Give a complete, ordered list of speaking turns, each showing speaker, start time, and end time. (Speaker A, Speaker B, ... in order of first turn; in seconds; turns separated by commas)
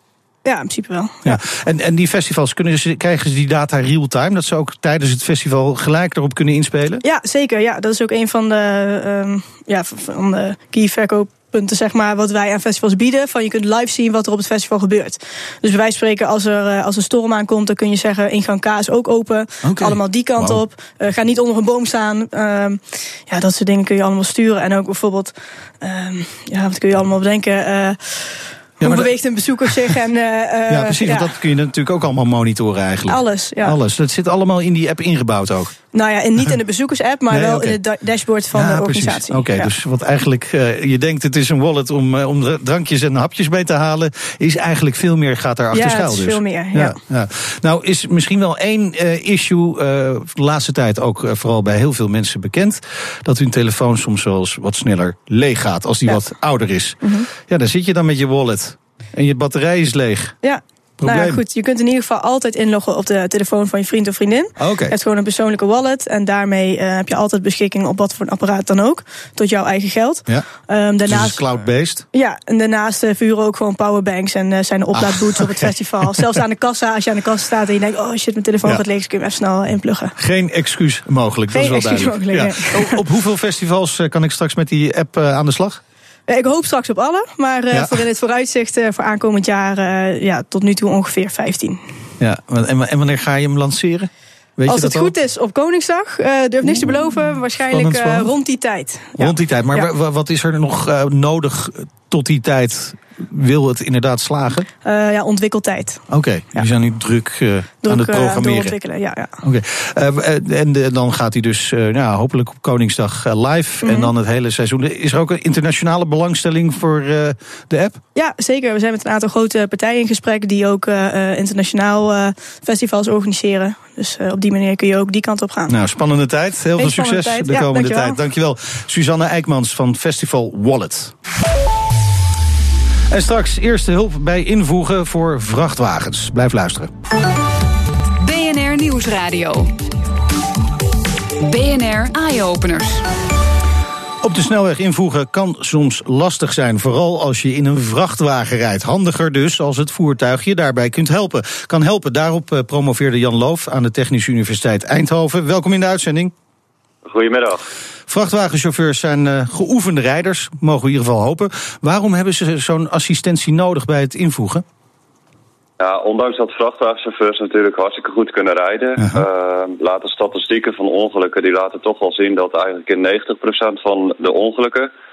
Speaker A: 0.5-1.4, Speaker B: 1.2-7.0, Speaker A: 7.0-31.3, Speaker B: 19.6-20.6, Speaker B: 28.8-29.1, Speaker B: 30.7-35.8, Speaker A: 33.1-33.8, Speaker A: 35.9-39.7, Speaker B: 37.3-37.8, Speaker B: 38.5-60.4, Speaker A: 45.7-47.0, Speaker A: 57.0-57.3, Speaker A: 60.4-71.4, Speaker B: 61.0-61.4, Speaker B: 64.6-65.0, Speaker B: 71.1-72.0, Speaker A: 72.1-80.2, Speaker B: 75.0-76.3, Speaker B: 80.2-85.8, Speaker A: 81.5-83.0, Speaker A: 86.3-91.8, Speaker B: 87.7-88.0, Speaker B: 92.2-95.1, Speaker A: 94.7-99.9, Speaker B: 96.7-96.9, Speaker B: 97.7-98.3, Speaker B: 99.2-104.7, Speaker A: 104.8-106.0, Speaker B: 106.1-108.8, Speaker A: 107.8-109.4, Speaker B: 109.4-118.0, Speaker A: 113.8-114.1, Speaker A: 118.2-125.8, Speaker B: 125.7-131.1, Speaker A: 126.8-128.2, Speaker B: 133.1-136.9, Speaker C: 138.2-139.7, Speaker C: 141.4-143.0, Speaker B: 144.2-156.3, Speaker D: 157.0-157.7, Speaker B: 158.1-164.7, Speaker D: 165.8-174.9, Speaker B: 169.0-169.2